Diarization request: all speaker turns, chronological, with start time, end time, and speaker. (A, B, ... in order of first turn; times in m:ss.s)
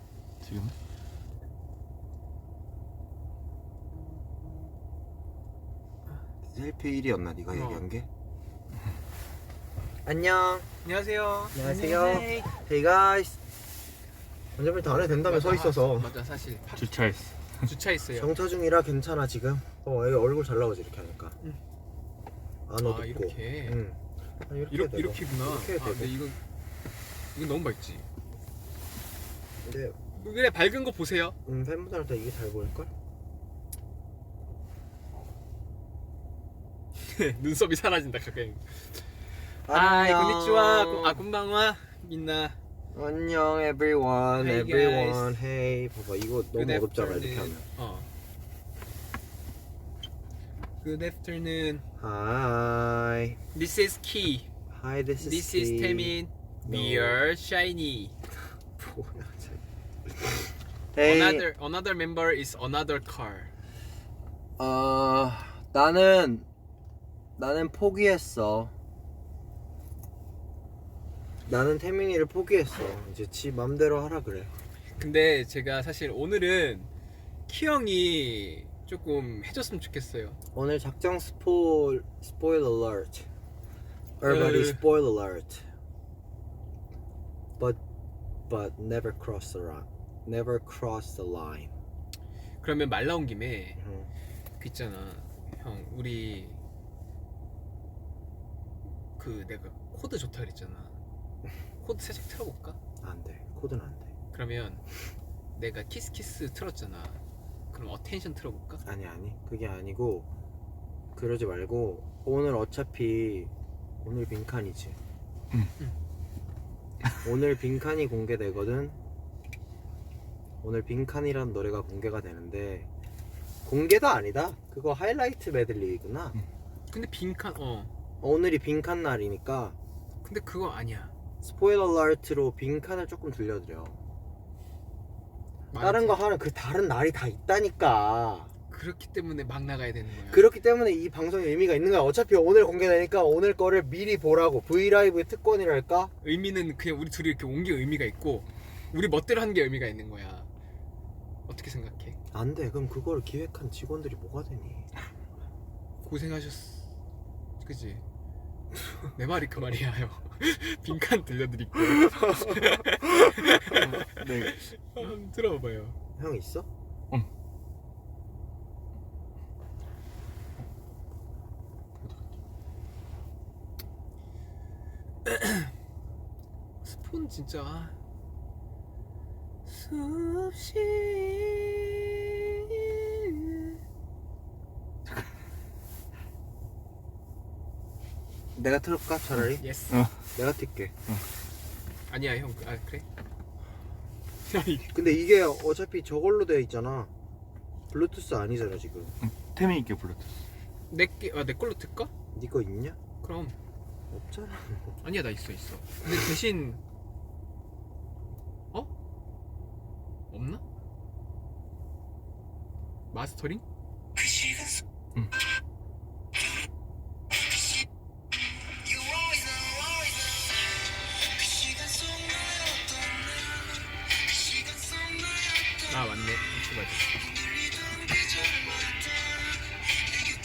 0:00.4-0:00.8 A
0:06.5-0:08.1 B
0:07.5-0:07.8 C
0:10.0-0:10.7 B
0:10.8-0:12.5 C
0:11.6-0:13.4 B
0:14.6-0:16.1 B
0:14.9-0:17.1 C
0:16.8-0:17.7 A
0:17.6-0:18.3 C
0:18.2-0:21.4 B
0:22.7-0:26.1 B
0:22.8-0:23.8 C
0:24.7-0:26.4 C
0:27.4-0:28.1 C
0:29.6-0:30.0 B
0:30.1-0:31.4 C
0:31.5-0:32.9 B
0:37.0-0:38.8 C
0:39.7-0:41.2 B
0:39.7-0:42.6 C
0:42.9-0:47.6 B
0:44.4-0:45.4 C
0:46.6-0:48.1 C
0:50.8-0:51.8 C
0:52.0-0:53.4 B
0:53.5-0:54.5 C
0:54.7-0:57.2 B
0:55.2-0:58.2 C
0:58.8-1:01.5 B
1:01.0-1:03.5 C
1:04.6-1:06.5 B
1:07.4-1:08.7 B
1:11.5-1:14.5 B
1:15.0-1:16.9 C
1:17.5-1:20.4 C
1:20.6-1:23.3 B
1:24.2-1:25.7 B
1:24.2-1:24.8 C
1:28.5-1:31.7 B
1:32.6-1:33.8 C
1:33.8-1:34.1 B
1:34.6-1:36.6 C
1:39.2-1:41.0 C
1:41.8-1:42.8 C
1:43.0-1:44.1 B
1:44.3-1:44.8 C
1:45.6-1:47.2 C
1:47.7-1:48.8 C
1:48.8-1:50.3 B
1:51.2-1:53.5 B
1:54.0-1:55.0 B
1:57.2-1:59.0 B
2:00.6-2:02.9 B
2:03.6-2:06.4 B
2:06.9-2:07.9 C
2:08.2-2:09.8 B
2:10.2-2:11.1 C
2:11.4-2:14.0 B
2:15.7-2:16.2 C
2:15.8-2:18.5 B
2:18.7-2:20.4 C
2:20.3-2:26.1 B
2:26.2-2:30.5 C
2:31.5-2:32.2 C
2:32.3-2:34.9 B
2:36.0-2:36.9 C
2:37.6-2:38.0 C
2:39.2-2:46.0 C
2:42.0-2:42.8 B
2:43.6-2:44.6 A
2:46.2-2:46.7 B
2:55.2-2:55.7 C
2:56.8-2:57.9 C
2:59.7-3:03.6 C
3:08.6-3:09.6 B
3:09.6-3:10.0 C
3:10.4-3:10.9 B
3:12.1-3:13.0 C
3:14.5-3:14.9 C
3:14.9-3:17.1 B
3:17.9-3:19.2 B
3:19.2-3:20.4 A
3:20.9-3:22.1 C
3:22.3-3:23.0 B
3:23.2-3:23.5 C
3:24.1-3:25.0 B
3:25.0-3:26.8 C
3:30.3-3:30.6 C
3:33.1-3:33.6 C
3:45.9-3:47.2 C